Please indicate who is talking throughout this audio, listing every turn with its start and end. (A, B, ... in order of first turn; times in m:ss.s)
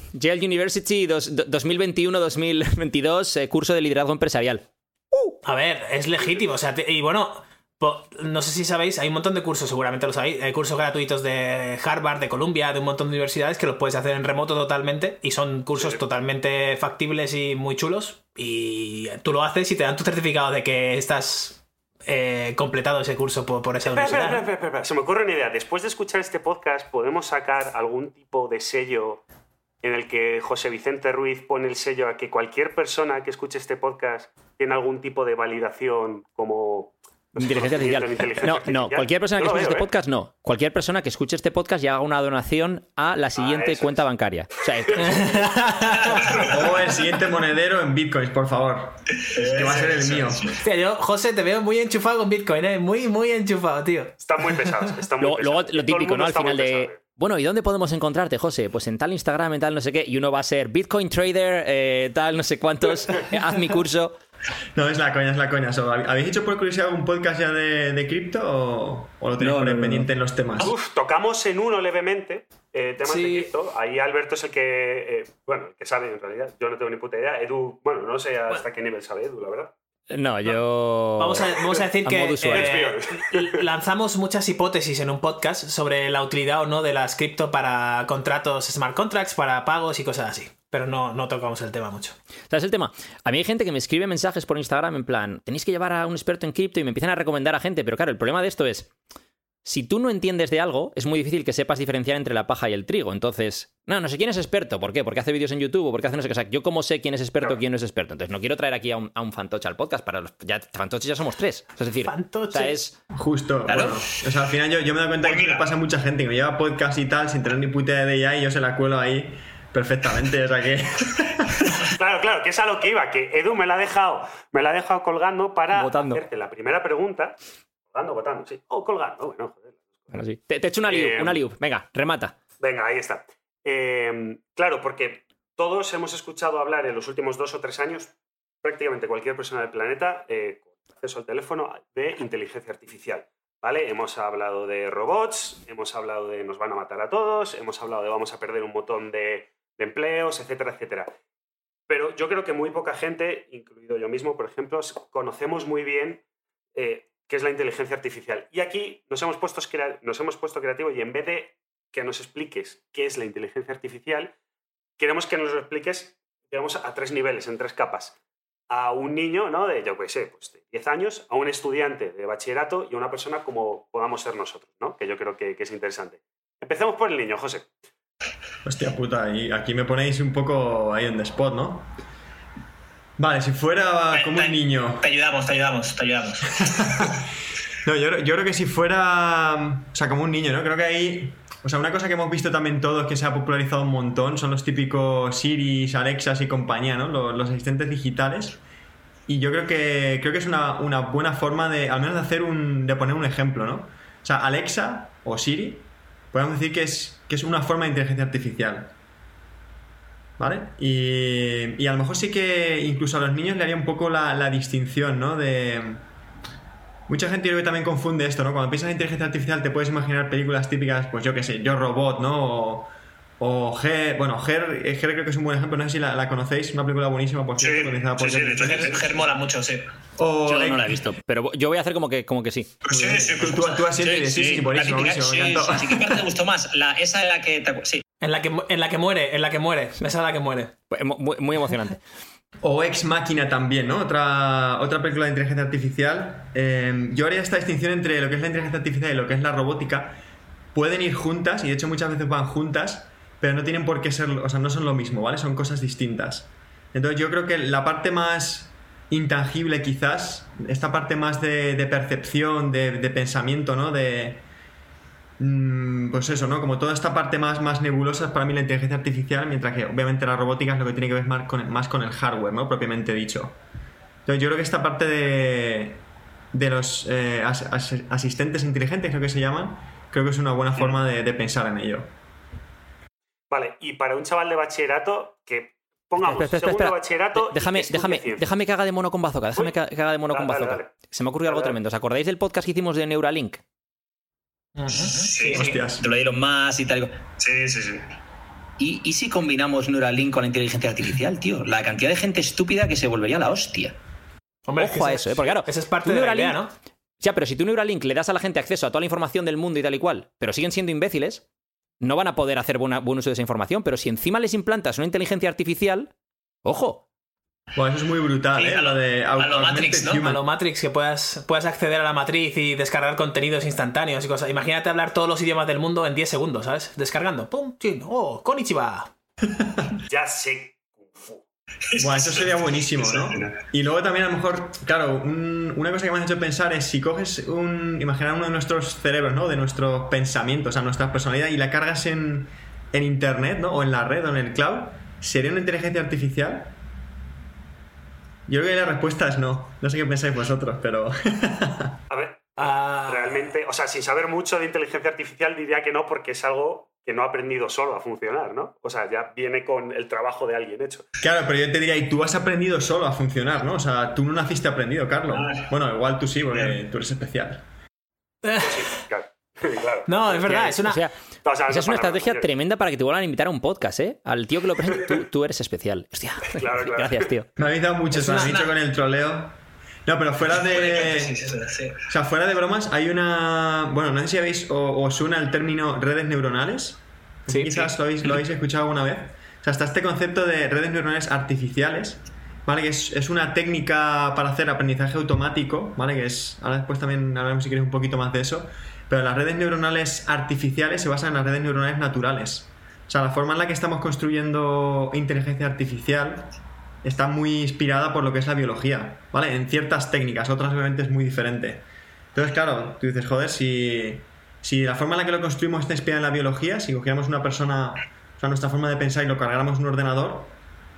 0:00.1-0:05.4 A
0:05.4-0:24.4 B
0:23.9-0:29.2 C
0:29.8-0:39.9 C
0:37.4-0:45.7 A
0:43.4-0:44.0 C
0:45.0-0:46.4 B
0:46.1-0:46.4 C
0:46.4-0:50.6 D
0:49.3-0:50.6 E
0:50.6-0:54.2 B
0:54.2-0:57.0 C
0:55.2-1:04.2 A
1:04.7-1:10.7 D
1:09.4-1:10.0 A
1:10.6-1:19.7 C
1:13.0-1:13.5 B
1:20.1-1:22.8 A
1:21.2-1:32.2 B
1:22.5-1:23.6 C
1:32.5-1:38.9 A
1:39.6-1:53.0 A
1:52.0-1:52.7 B
1:53.2-2:01.7 D
1:53.7-1:54.0 E
1:55.2-1:55.6 E
2:01.7-2:07.4 C
2:05.7-2:06.2 A
2:07.9-2:10.2 C
2:10.1-2:12.3 A
2:10.9-2:11.4 C
2:12.6-2:31.1 C
2:31.9-2:36.2 C
2:36.7-2:44.3 C
2:45.0-2:48.2 C
2:48.7-2:57.7 C
2:58.6-3:01.9 D
3:03.2-3:05.1 D
3:04.1-3:07.1 E
3:06.5-3:07.3 D
3:07.8-3:18.6 D
3:19.3-3:28.9 D
3:30.4-3:36.0 D
3:37.1-3:42.9 D
3:43.4-3:49.1 D
3:47.6-3:49.9 E
3:50.2-3:51.0 D
3:50.4-3:52.8 A
3:52.8-3:58.0 E
3:52.9-3:56.2 D
3:55.9-3:57.3 A
3:58.2-4:00.7 B
4:00.9-4:02.0 A
4:02.6-4:10.2 D
4:10.7-4:24.4 D
4:25.4-4:33.5 D
4:34.2-4:36.0 D
4:36.5-4:42.1 D
4:43.5-4:48.4 C
4:46.2-4:53.6 A
4:50.3-4:50.9 C
4:51.5-4:51.8 C
4:54.8-4:55.2 B
4:54.9-4:55.7 E
4:55.4-4:56.0 D
4:56.0-4:57.1 A
4:57.4-4:58.0 E
4:58.8-5:03.9 A
5:04.7-5:06.7 B
5:04.8-5:06.6 A
5:07.2-5:11.4 A
5:12.0-5:16.1 A
5:16.6-5:17.0 A
5:17.7-5:20.4 D
5:18.5-5:20.3 E
5:20.2-5:29.1 B
5:29.4-5:29.9 D
5:30.0-5:31.4 C
5:31.9-5:33.5 E
5:32.0-5:46.7 D
5:48.5-5:52.0 D
5:52.1-6:01.0 C
5:52.6-5:53.5 B
6:01.2-6:07.6 D
6:08.4-6:09.0 B
6:08.6-6:10.4 C
6:10.1-6:11.0 B
6:10.4-6:11.1 A
6:11.4-6:12.5 C
6:11.7-6:17.5 A
6:16.5-6:17.3 C
6:17.6-6:19.5 D
6:18.1-6:18.6 B
6:18.3-6:18.6 E
6:20.0-6:21.5 D
6:20.7-6:22.0 E
6:22.0-6:46.5 D
6:27.5-6:27.9 B
6:47.0-6:51.8 D
6:52.3-7:00.5 D